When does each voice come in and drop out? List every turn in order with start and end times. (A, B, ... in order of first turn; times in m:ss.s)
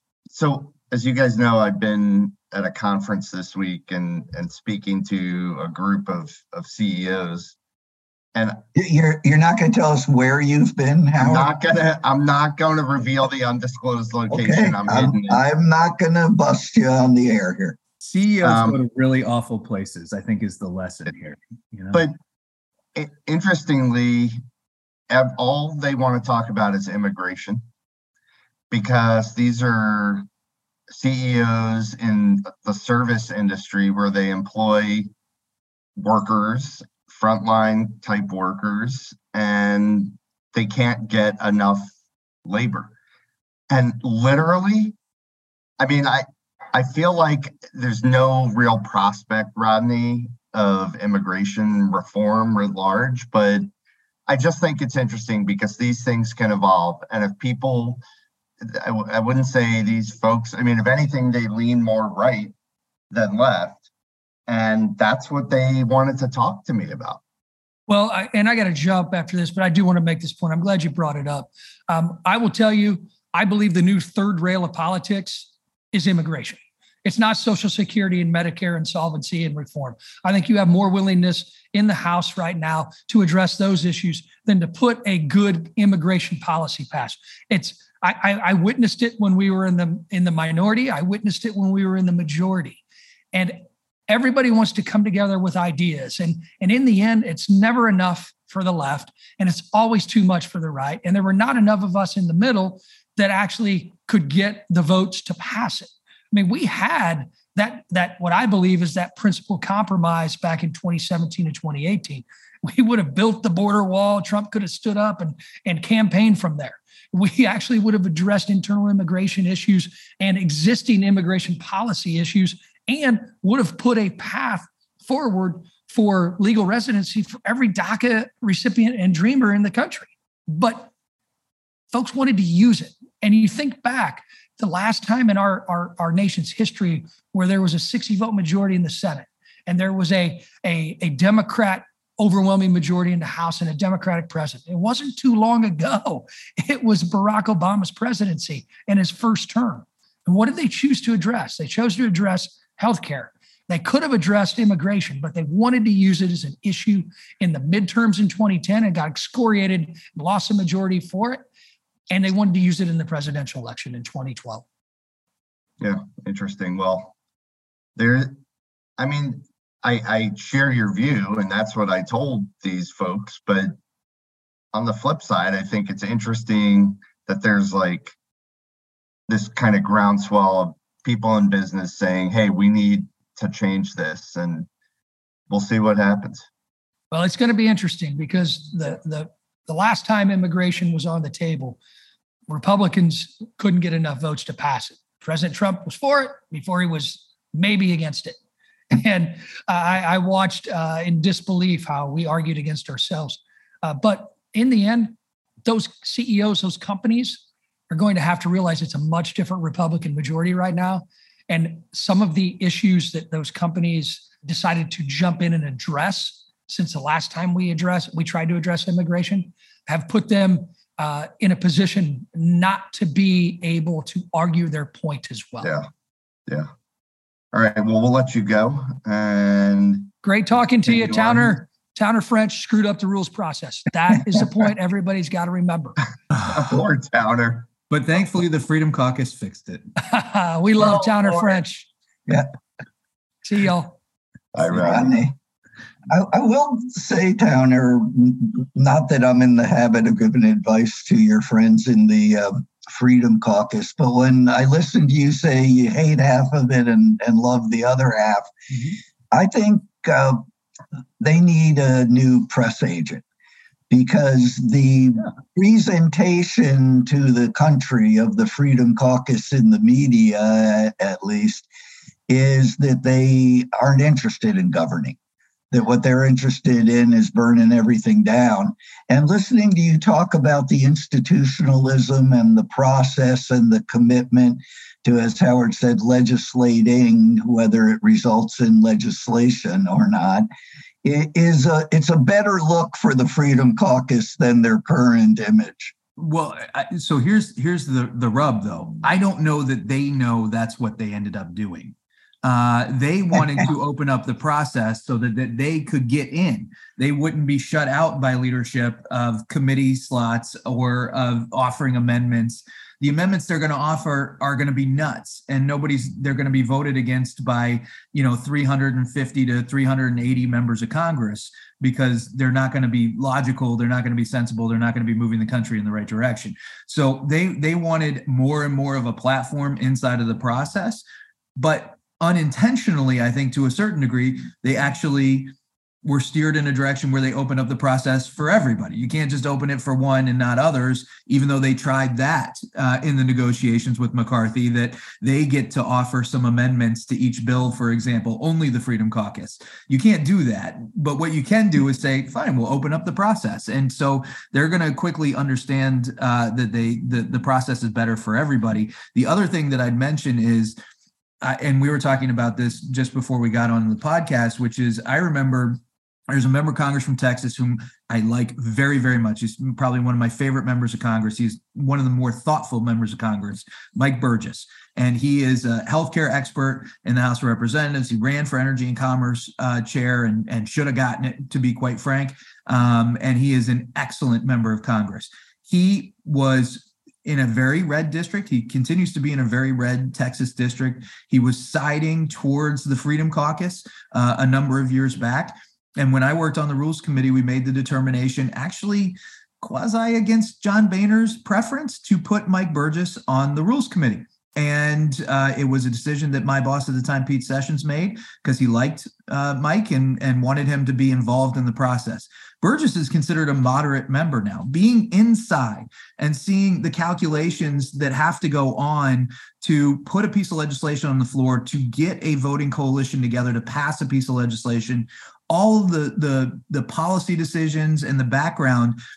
0:00.3-0:07.5 A
0:08.3-0:08.6 A
0:08.7-0:11.5 B
0:11.2-0:15.4 A
0:14.3-0:17.8 B
0:18.0-0:22.0 C
0:18.4-0:18.8 A
0:22.9-0:24.4 A
0:25.1-0:27.6 A
0:28.7-0:30.3 A
0:30.9-0:35.1 A
0:36.0-0:41.9 A
0:42.4-0:42.9 A
0:43.7-0:44.9 A
0:45.8-0:53.7 A
0:54.3-0:58.0 A
0:58.6-1:02.5 A
1:03.1-1:03.8 A
1:04.5-1:07.2 A
1:07.9-1:32.8 D
1:33.3-2:10.9 D
2:11.9-2:41.4 D
2:42.1-2:44.6 D
2:45.8-2:47.1 A
2:48.0-2:48.4 A
2:49.0-2:53.7 A
2:54.7-2:58.1 A
2:59.3-3:04.7 A
3:05.5-3:06.5 A
3:07.1-3:11.8 D
3:12.5-3:18.4 D
3:19.0-3:45.7 D
3:47.5-3:50.1 A
3:50.2-3:56.0 D
3:50.8-3:51.5 A
3:56.5-3:57.7 A
3:57.9-3:59.9 C
4:00.0-4:01.9 D
4:00.8-4:01.5 A
4:03.4-4:04.0 D
4:04.5-4:05.1 A
4:04.7-4:05.3 B
4:06.1-4:18.5 B
4:19.3-4:20.4 B
4:21.2-4:23.2 B
4:23.9-4:31.7 B
4:32.3-4:35.2 B
4:35.7-4:50.5 B
4:51.0-4:55.9 B
4:56.2-5:31.0 C
5:31.6-5:35.5 C
5:36.0-6:00.8 C
6:01.4-6:05.8 C
6:06.3-7:09.0 C